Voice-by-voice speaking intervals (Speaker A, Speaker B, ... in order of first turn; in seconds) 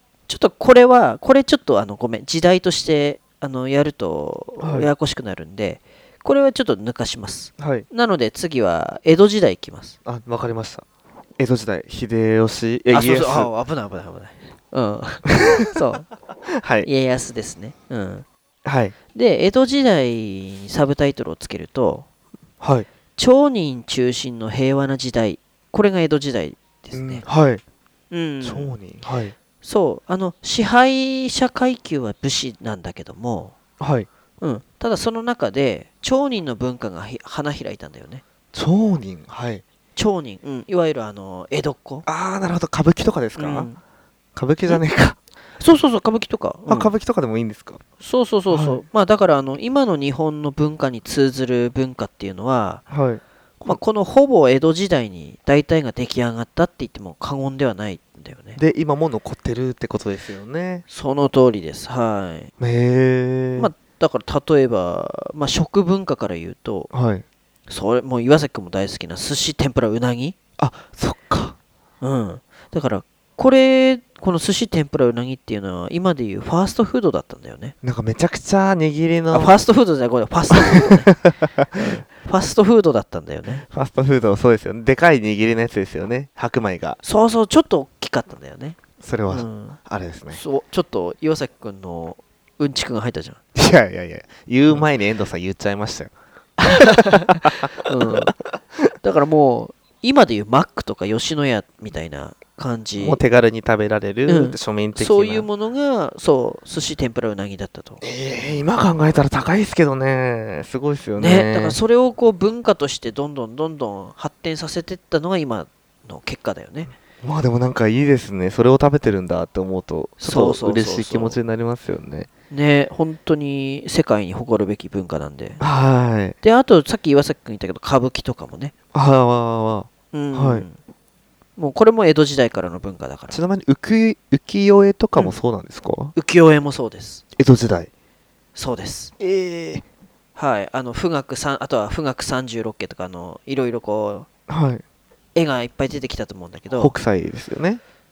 Speaker A: 0.3-10.0, 12.9-16.1, 16.9-18.3, 19.1-22.1, 23.2-27.2, 28.1-28.8, 29.6-33.5, 34.4-38.2, 40.0-42.1, 43.4-43.8, 45.6-46.9, 48.0-52.8, 53.6-58.6, 60.9-62.5, 63.6-66.9, 67.7-70.4, 72.0-77.7, 79.3-81.1, 81.8-83.7, 87.0-89.8, 90.3-93.4, 96.7-98.3, 99.0-103.2, 104.3-108.0, 111.2-116.9, 120.2-121.4, 122.5-125.6, 126.4-128.7, 130.1-130.8, 131.6-133.4, 136.2-137.2, 138.6-139.2, 140.4-144.3, 145.3-146.9
Speaker B: 4.6-4.9, 7.6-7.9, 10.1-10.8, 11.4-13.5, 15.3-15.7, 16.5-16.9, 18.6-18.9, 22.6-22.9, 26.9-27.6, 28.4-29.4, 33.8-34.1, 38.5-39.6, 42.1-43.7, 44.4-45.2, 46.7-47.8, 48.5-48.8, 52.9-53.8, 58.6-60.9, 62.6-63.7, 66.9-67.2, 70.6-71.6, 77.8-79.5, 80.5-82.0, 83.6-87.0, 89.0-90.4, 93.5-96.1, 96.7-98.3, 103.0-105.5, 108.0-111.8, 117.2-122.3, 125.6-126.4, 128.9-130.7, 133.3-136.1, 137.4-137.9, 139.2-139.8, 144.5-144.8, 146.7-147.8